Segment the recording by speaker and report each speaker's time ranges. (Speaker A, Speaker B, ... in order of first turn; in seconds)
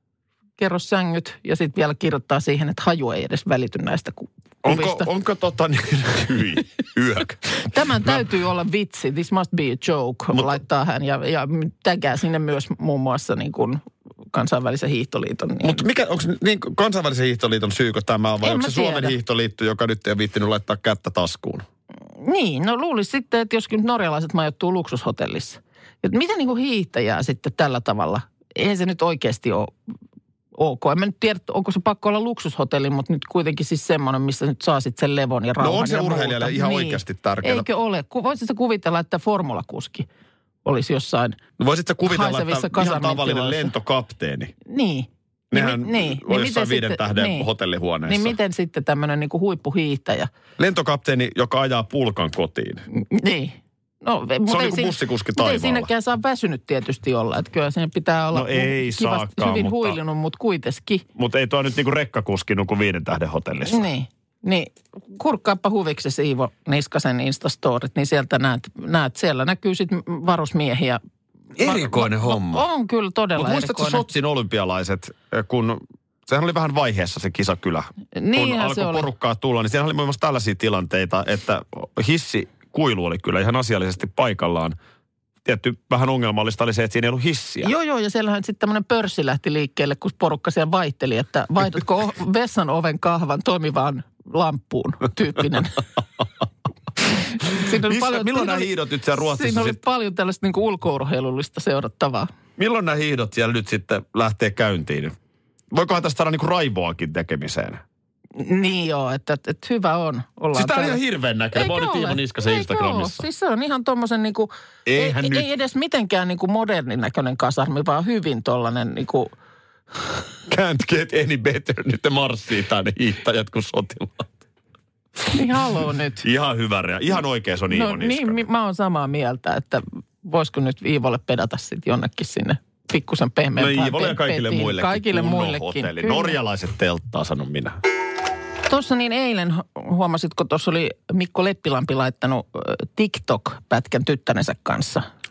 Speaker A: 0.6-5.1, 7.7-13.8, 14.3-15.8, 18.4-19.1, 22.2-29.7, 30.6-40.1, 40.6-41.4, 42.0-43.7, 44.6-47.5, 48.1-50.3, 52.9-61.0, 63.7-71.0, 71.5-74.0, 78.1-79.1, 87.6-95.8, 97.4-102.3, 108.3-111.0, 111.5-119.3, 125.3-126.2, 127.7-136.4, 138.7-145.1
Speaker B: 4.6-7.4, 8.0-8.3, 15.6-21.6, 35.6-37.6, 41.6-44.5, 45.5-48.3, 50.6-52.8, 54.5-55.9, 58.3-60.0, 61.1-63.9, 71.5-72.7, 73.3-84.8, 85.4-87.7, 97.5-99.8, 102.6-105.1, 105.7-107.8, 110.5-113.2, 114.8-115.5, 120.5-124.3, 126.2-128.4, 133.6-137.8